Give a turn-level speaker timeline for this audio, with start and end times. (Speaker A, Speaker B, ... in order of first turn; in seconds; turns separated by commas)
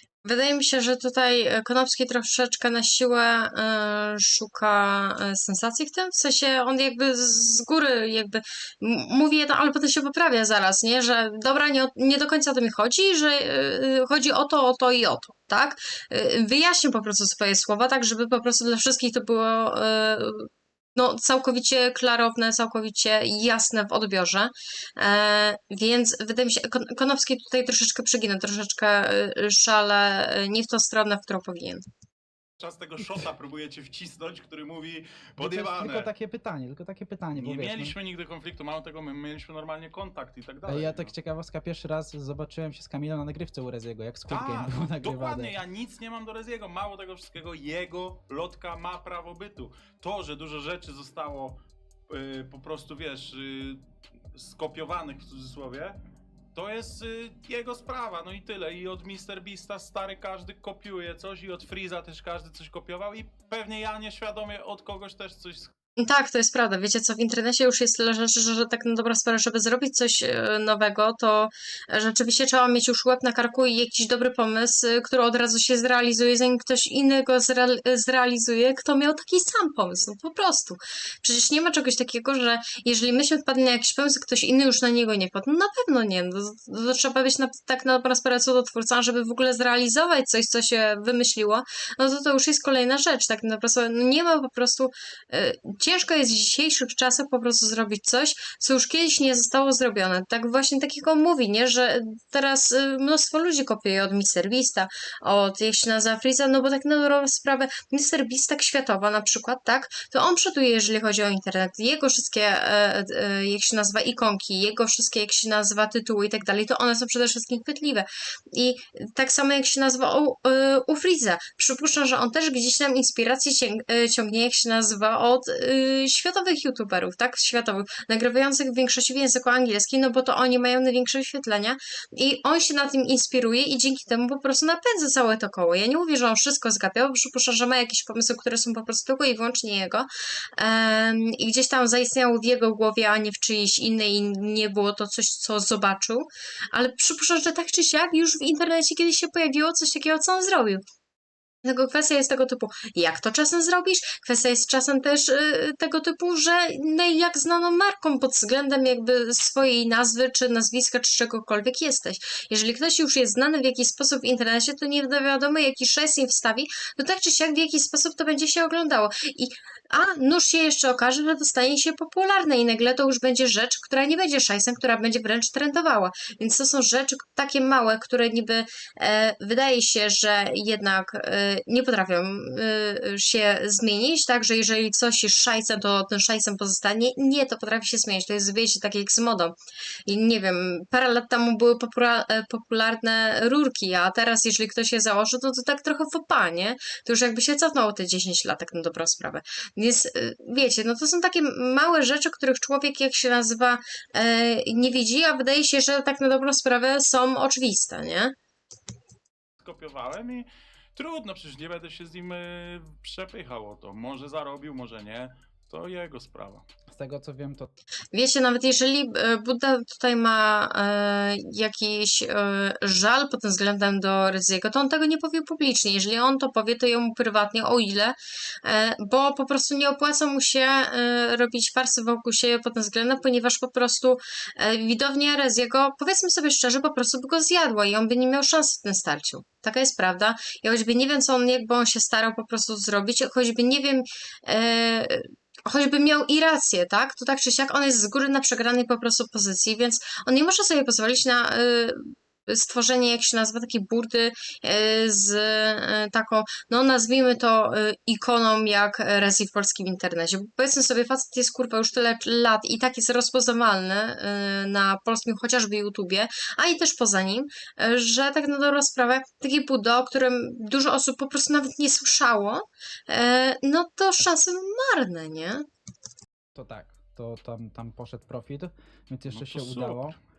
Speaker A: 0.2-31.8, Speaker B: 32.6-36.1, Speaker C: 35.4-37.9, Speaker B: 37.3-41.1, Speaker C: 40.6-45.5, Speaker B: 44.3-53.8, Speaker B: 54.3-56.0, Speaker B: 56.5-65.7, Speaker A: 66.0-150.8, Speaker A: 151.6-189.5, Speaker A: 190.1-208.3, Speaker B: 209.6-216.6, Speaker C: 216.9-217.7, Speaker A: 218.1-275.6, Speaker C: 276.5-280.1, Speaker B: 279.3-280.2